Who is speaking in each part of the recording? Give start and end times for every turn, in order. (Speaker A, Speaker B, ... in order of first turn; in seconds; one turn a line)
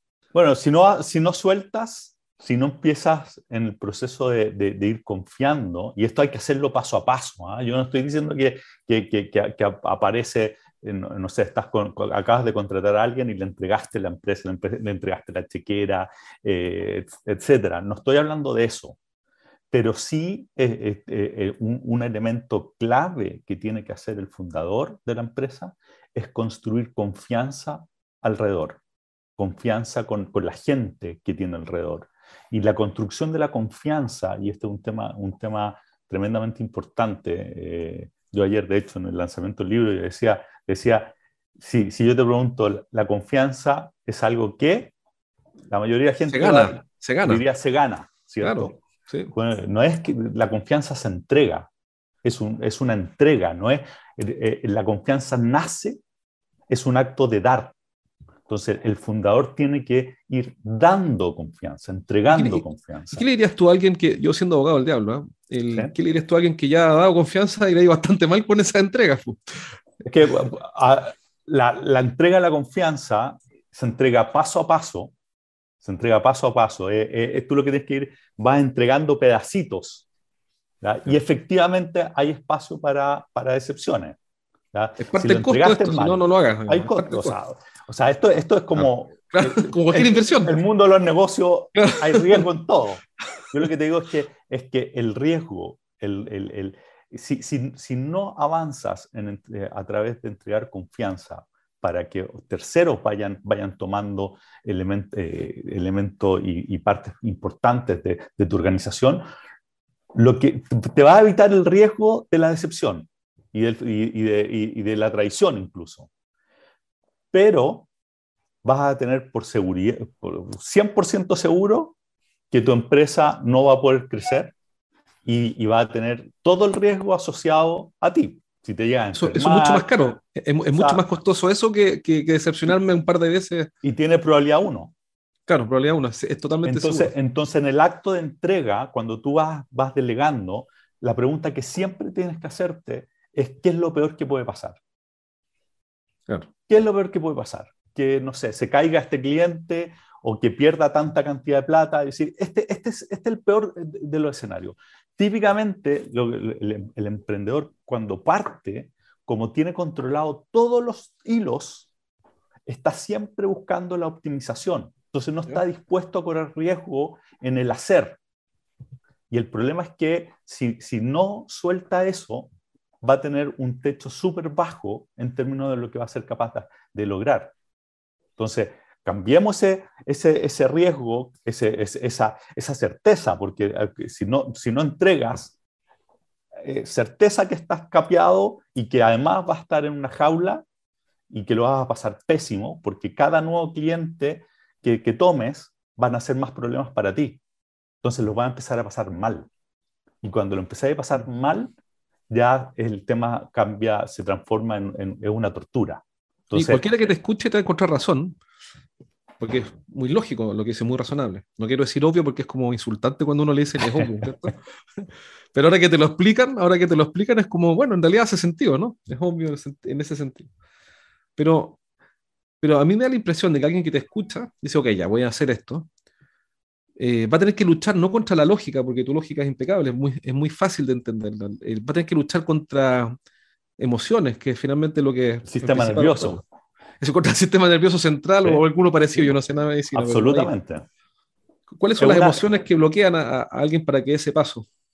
Speaker A: 0.3-19.0
Speaker A: 19.7-28.8
Speaker A: 29.4-44.9
Speaker A: 45.7-48.8
Speaker B: 46.3-47.4
Speaker B: 48.4-49.3
Speaker A: 49.3-51.7
Speaker A: 52.2-56.0
Speaker A: 56.7-57.7
Speaker A: 58.5-63.2
Speaker B: 62.3-69.5
Speaker A: 70.1-75.1
Speaker A: 75.8-80.0
Speaker A: 80.8-84.2
Speaker A: 84.7-109.2
Speaker B: 85.0-87.4
Speaker B: 88.7-90.6
Speaker B: 91.8-92.4
Speaker A: 110.1-116.1
Speaker A: 117.3-117.9
Speaker A: 118.6-121.9
Speaker A: 122.5-124.5
Speaker A: 125.2-130.1
Speaker B: 129.1-133.7
Speaker A: 130.7-131.0
Speaker A: 133.8-134.9
Speaker B: 135.5-137.1
Speaker A: 136.6-144.8
Speaker A: 146.7-161.9
Speaker A: 162.7-168.2
Speaker A: 169.3-172.5
Speaker A: 173.0-177.5
Speaker A: 178.4-185.5
Speaker A: 186.6-190.6
Speaker A: 191.3-197.4
Speaker A: 198.0-199.5
Speaker A: 200.2-201.7
Speaker A: 202.3-206.8
Speaker B: 206.5-208.4
Speaker B: 209.4-214.6
Speaker B: 215.5-220.5
Speaker B: 221.4-221.8
Speaker B: 222.6-225.9
Speaker B: 227.0-233.1
Speaker B: 233.8-236.4
Speaker A: 235.4-236.4
Speaker B: 237.0-240.5
Speaker A: 239.9-240.8
Speaker B: 241.7-244.7
Speaker A: 242.0-242.5